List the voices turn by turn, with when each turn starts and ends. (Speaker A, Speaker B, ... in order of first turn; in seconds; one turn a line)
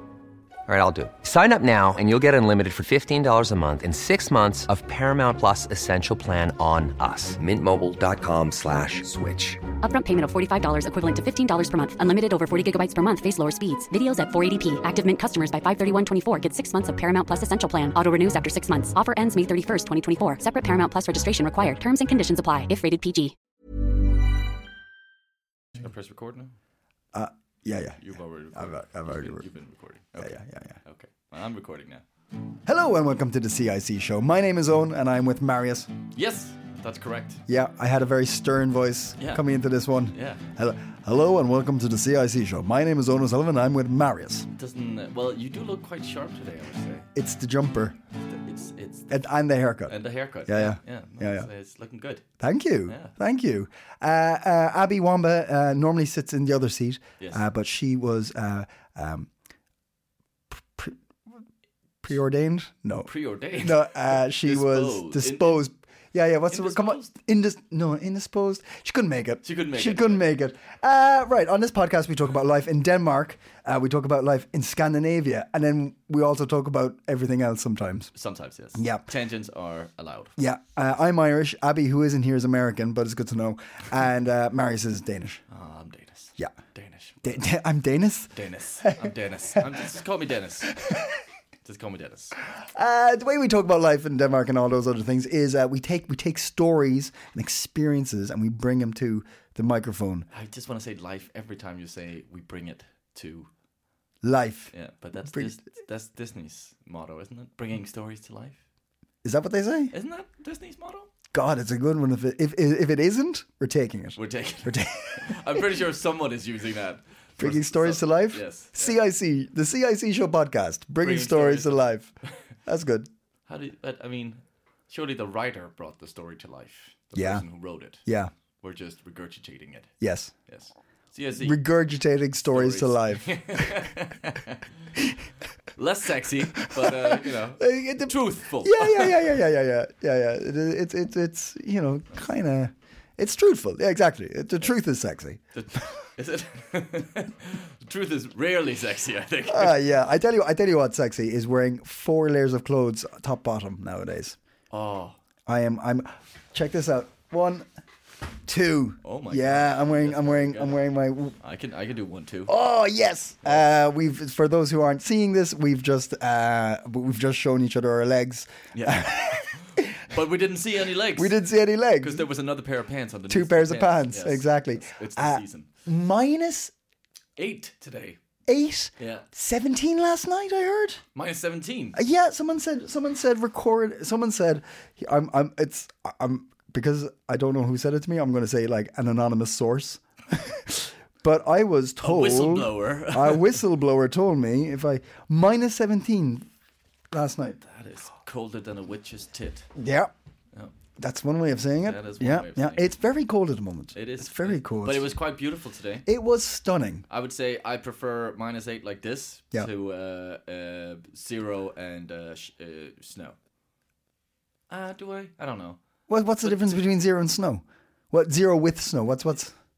Speaker A: 0.7-9.6
Speaker B: 9.8-23.3
Speaker C: 25.8-26.5
Speaker D: 27.1-28.0
Speaker C: 28.0-32.0
Speaker D: 28.5-29.4
Speaker D: 30.2-30.8
Speaker D: 32.6-35.9
Speaker C: 36.1-37.4
Speaker D: 37.5-44.5
Speaker C: 40.1-40.4
Speaker C: 44.5-47.1
Speaker D: 47.1-48.0
Speaker C: 48.3-49.1
Speaker D: 49.1-51.5
Speaker C: 49.9-52.2
Speaker D: 52.4-59.3
Speaker C: 52.9-53.1
Speaker D: 60.5-61.0
Speaker D: 62.0-78.1
Speaker C: 63.0-65.7
Speaker C: 66.5-67.1
Speaker C: 69.4-70.3
Speaker C: 78.1-80.3
Speaker D: 78.7-79.1
Speaker D: 80.4-85.4
Speaker C: 85.5-87.4
Speaker D: 87.2-89.6
Speaker C: 88.3-90.8
Speaker D: 90.7-91.1
Speaker C: 91.6-92.4
Speaker D: 92.6-100.3
Speaker C: 100.3-103.5
Speaker D: 104.2-104.7
Speaker C: 104.7-108.6
Speaker D: 109.2-109.9
Speaker C: 109.9-111.1
Speaker D: 111.3-115.6
Speaker C: 114.2-119.0
Speaker D: 117.4-122.1
Speaker C: 121.0-121.8
Speaker D: 122.6-123.1
Speaker C: 123.5-128.1
Speaker D: 127.1-127.4
Speaker D: 128.0-128.3
Speaker C: 128.6-129.9
Speaker D: 130.0-130.3
Speaker C: 130.4-131.6
Speaker D: 131.4-133.9
Speaker C: 132.5-134.7
Speaker C: 135.7-139.2
Speaker D: 136.6-145.4
Speaker C: 145.5-149.7
Speaker D: 149.5-154.3
Speaker C: 154.7-155.2
Speaker D: 155.4-157.7
Speaker D: 158.4-161.3
Speaker C: 159.0-160.8
Speaker C: 161.4-162.5
Speaker D: 162.5-170.0
Speaker C: 168.7-171.3
Speaker D: 171.2-172.2
Speaker C: 172.0-175.7
Speaker D: 173.3-176.7
Speaker C: 177.3-178.2
Speaker D: 178.5-181.0
Speaker C: 179.0-179.2
Speaker C: 181.1-182.0
Speaker D: 181.9-196.5
Speaker C: 192.0-193.6
Speaker D: 197.1-197.6
Speaker C: 197.6-199.7
Speaker D: 199.7-200.1
Speaker D: 201.0-205.1
Speaker C: 201.8-202.9
Speaker C: 203.9-206.1
Speaker D: 206.1-207.0
Speaker C: 207.1-213.3
Speaker C: 214.7-215.8
Speaker D: 216.1-219.5
Speaker C: 216.4-216.8